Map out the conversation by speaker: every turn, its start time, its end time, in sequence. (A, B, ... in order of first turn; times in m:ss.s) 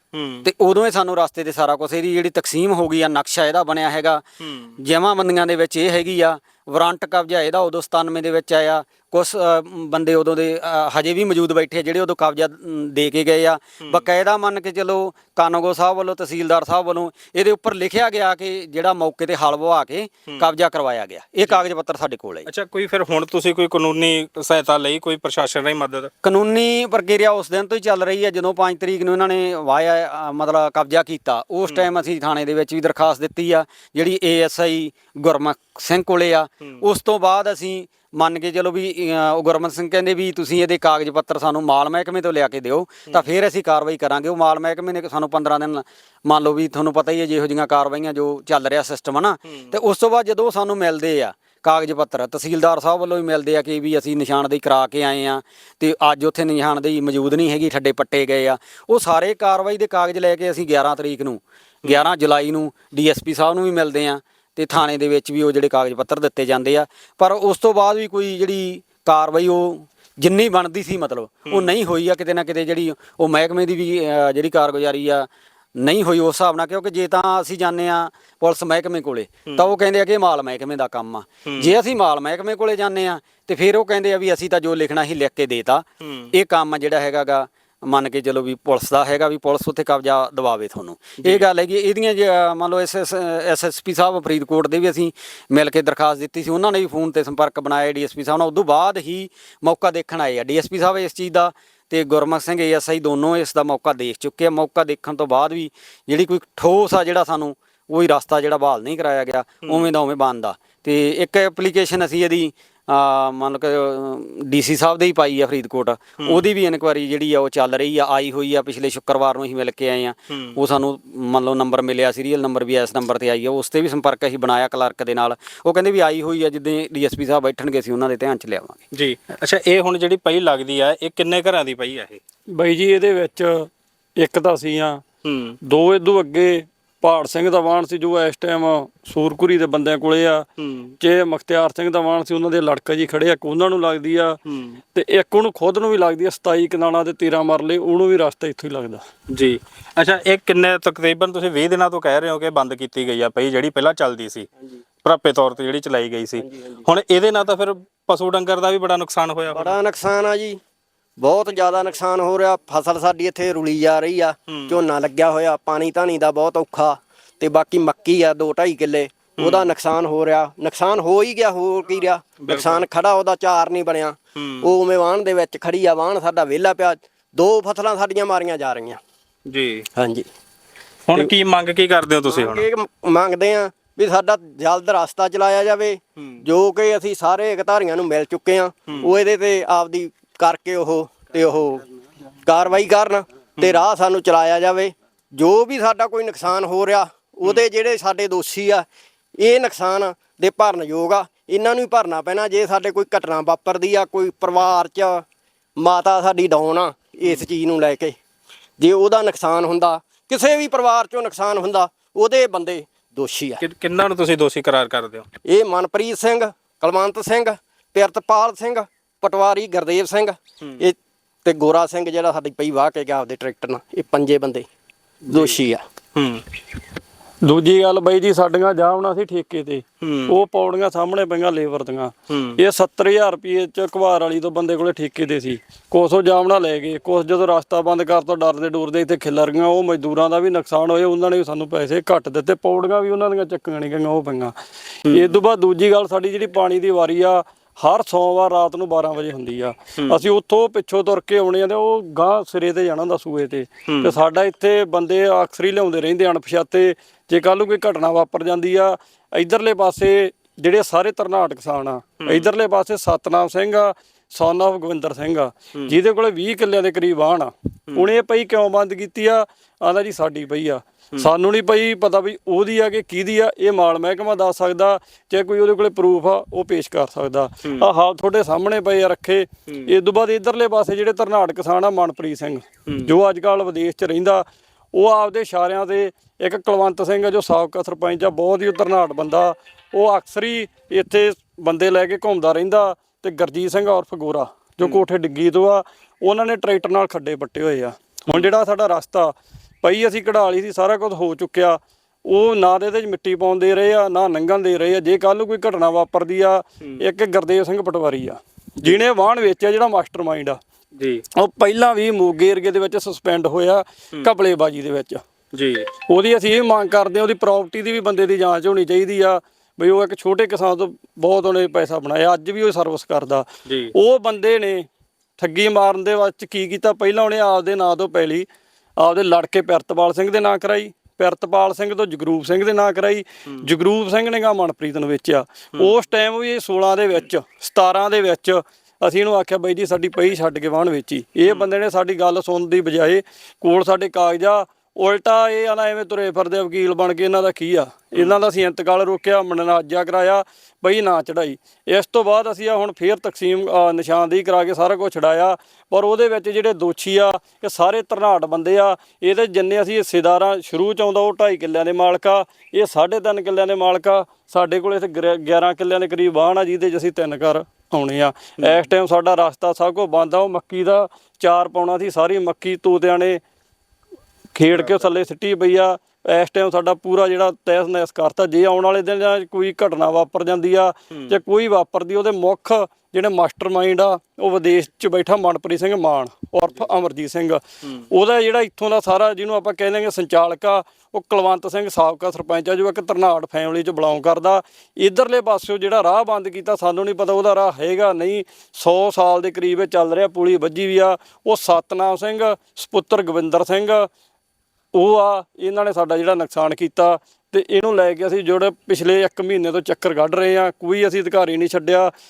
0:00.1-0:00.5 A
0:00.4-0:04.2 B
0:04.4-0:04.8 A
0:04.8-0:22.5 B
0:22.5-0:26.1 A
0:26.2-2:08.8 B
0:49.4-0:49.7 A
1:11.5-1:11.7 A
1:19.5-1:19.7 A
1:21.4-1:21.7 A
1:26.0-1:26.3 A
1:49.6-1:49.9 A
2:00.3-2:00.6 A
2:08.9-2:12.2 A
2:12.5-2:15.0 C
2:15.2-2:15.6 A
2:15.6-2:20.5 C
2:20.6-2:21.0 A
2:21.0-2:24.4 C
2:24.5-2:24.8 A
2:24.9-2:29.0 C
2:29.3-2:34.5 A
2:35.0-2:39.8 A
2:36.5-2:36.8 D
2:39.5-2:40.6 D
2:41.2-2:59.0 D
2:44.5-2:44.8 A
2:49.4-2:49.7 A
2:52.4-2:52.9 A
2:54.4-2:54.7 A
2:59.5-2:59.9 A
3:00.0-3:00.3 D
3:01.1-3:02.7 A
3:02.3-3:11.8 D
3:06.2-3:06.4 A
3:08.9-3:09.2 A
3:12.5-3:18.9 D
3:13.6-3:13.8 A
3:19.4-3:25.2 D
3:25.8-3:28.2 D
3:28.8-3:33.6 D
3:33.6-3:35.3 A
3:35.5-3:44.7 D
3:45.3-3:45.6 A
3:45.3-3:45.8 D
3:46.2-3:46.4 A
3:47.4-5:10.6 C
3:50.0-3:50.4 A
3:52.3-3:52.6 A
4:05.1-4:05.4 A
4:13.9-4:14.1 A
4:22.2-4:22.5 A
4:42.9-4:43.1 A
5:11.0-5:11.2 A
5:11.4-5:15.2 C
5:15.5-5:15.9 A
5:16.1-5:24.9 C
5:23.6-5:23.9 A
5:25.4-5:28.5 C
5:29.0-6:13.4 C
6:14.5-6:44.1 C
6:14.7-6:15.0 A
6:21.1-6:21.4 A
6:44.9-6:52.1 C